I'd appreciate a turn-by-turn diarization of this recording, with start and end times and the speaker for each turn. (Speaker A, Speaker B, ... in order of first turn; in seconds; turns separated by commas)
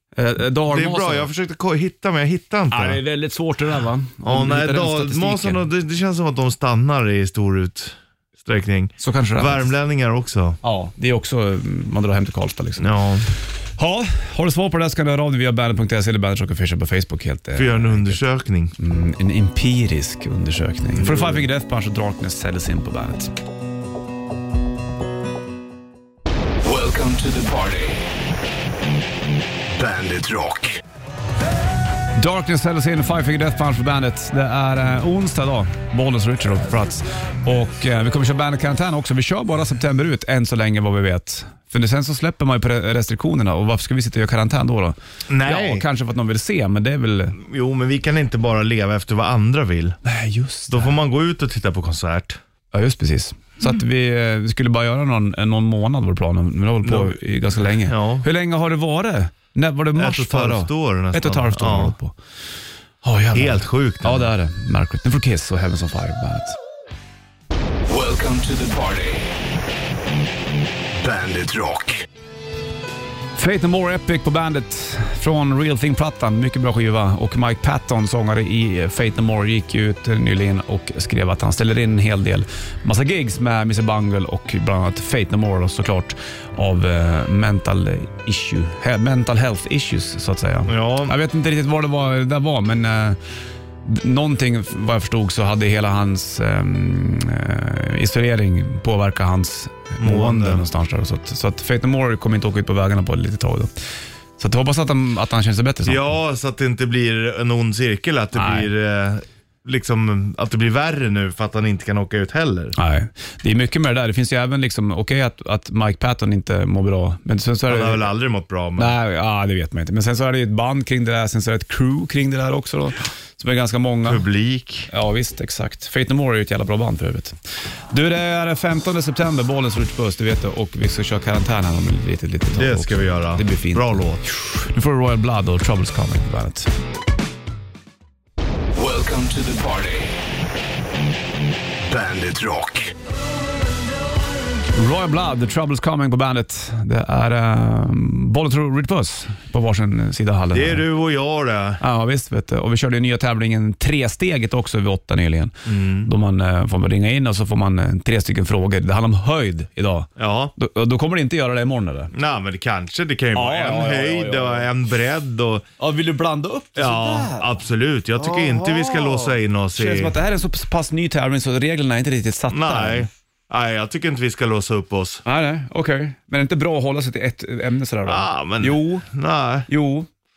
Speaker A: 0.1-1.3, Speaker B: 0.7-3.0, Speaker A: 2.7-5.6, Speaker B: 4.2-10.6, Speaker A: 9.0-9.7, Speaker A: 10.6-12.9, Speaker B: 12.8-13.3, Speaker A: 13.8-18.2, Speaker B: 17.6-18.7, Speaker A: 18.8-23.3, Speaker B: 20.9-21.4, Speaker C: 26.6-28.0, Speaker C: 29.8-30.7, Speaker A: 32.1-47.4, Speaker B: 45.3-45.9, Speaker B: 47.4-50.0, Speaker A: 50.0-51.0, Speaker B: 50.7-52.4, Speaker A: 52.7-62.1, Speaker B: 56.8-58.2, Speaker B: 60.0-61.9, Speaker A: 63.0-66.5, Speaker B: 63.3-64.3, Speaker C: 67.9-69.2, Speaker C: 71.0-71.9, Speaker A: 73.3-93.2, Speaker B: 90.7-91.2, Speaker A: 93.8-103.7, Speaker B: 100.0-100.6, Speaker A: 104.4-106.1, Speaker B: 105.8-112.7, Speaker A: 108.3-108.7, Speaker A: 112.8-118.1, Speaker B: 117.7-118.9, Speaker A: 118.8-124.2, Speaker B: 124.0-124.9, Speaker A: 124.9-127.3, Speaker A: 127.9-136.7, Speaker B: 132.5-134.2, Speaker C: 138.7-140.1, Speaker C: 141.9-142.9, Speaker A: 144.7-150.8, Speaker B: 150.5-151.8, Speaker A: 151.8-162.1, Speaker B: 155.7-156.1, Speaker B: 160.2-160.5, Speaker B: 162.1-165.7, Speaker A: 163.3-164.7, Speaker A: 165.8-167.6, Speaker B: 166.8-170.1, Speaker A: 168.2-173.1, Speaker B: 172.5-175.2, Speaker A: 175.2-179.1, Speaker B: 178.1-179.7, Speaker A: 179.7-180.1